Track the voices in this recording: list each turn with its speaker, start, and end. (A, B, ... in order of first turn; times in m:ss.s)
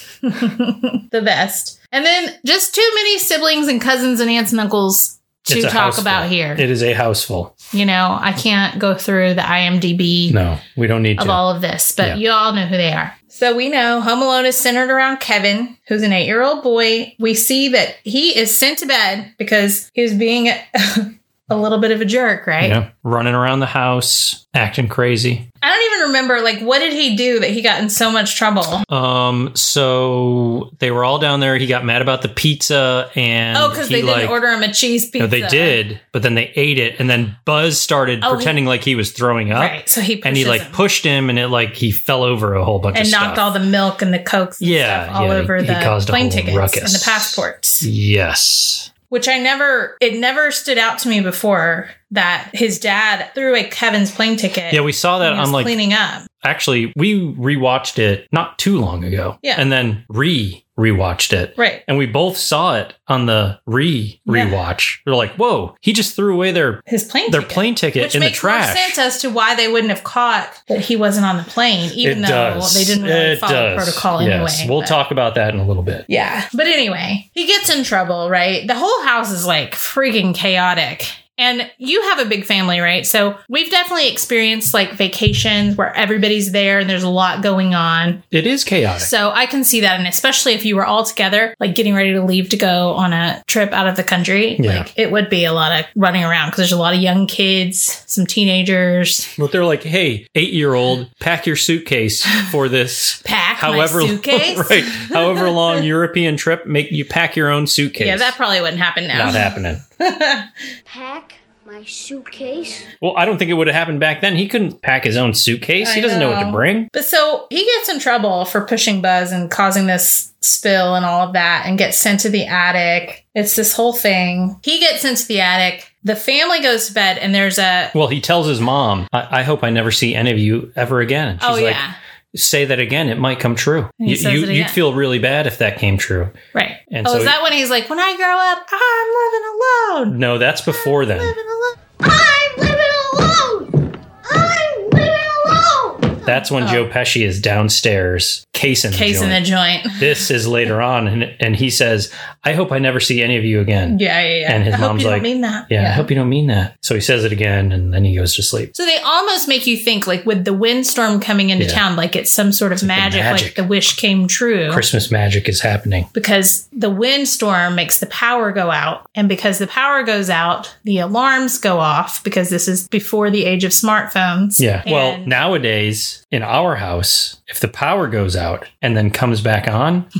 0:00.2-0:06.6 A
0:05.5-0:07.5 B
0:07.7-0:10.4 A
0:10.3-0:11.4 B
0:11.2-0:22.8 A
0:22.6-0:25.4 B
0:25.6-0:28.8 A
0:28.9-0:34.4 B
0:33.5-0:35.8 A
0:35.2-0:43.5 B
0:38.2-0:38.5 A
0:39.5-0:40.8 A
0:42.9-0:47.9 A
0:44.6-0:48.9 B
0:49.1-0:56.3 A
0:54.7-0:55.7 B
0:56.4-1:09.0 B
1:01.6-1:01.8 A
1:04.3-1:04.6 A
1:06.9-1:15.0 A
1:12.0-1:16.0 B
1:16.1-1:28.2 A
1:28.3-1:29.1 B
1:29.0-1:39.3 A
1:34.6-1:34.9 B
1:39.4-1:48.4 B
1:43.2-1:45.8 A
1:48.0-1:50.5 A
1:49.1-1:49.8 B
1:50.9-1:52.9 C
1:53.0-1:56.9 B
1:55.8-2:07.9 A
2:07.9-2:11.8 B
2:11.4-2:12.0 A
2:12.3-2:16.3 B
2:14.0-2:14.8 A
2:16.5-2:20.2 A
2:16.9-2:17.4 B
2:20.1-2:21.4 B
2:21.2-2:21.6 A
2:22.0-2:23.6 C
2:24.3-2:26.1 C
2:26.2-2:29.4 B
2:26.6-2:26.9 A
2:28.9-2:30.2 A
2:30.0-2:38.7 B
2:33.9-2:36.1 A
2:38.7-2:44.8 A
2:42.8-2:43.6 B
2:44.7-2:46.1 B
2:46.1-2:55.3 A
2:54.6-3:00.1 B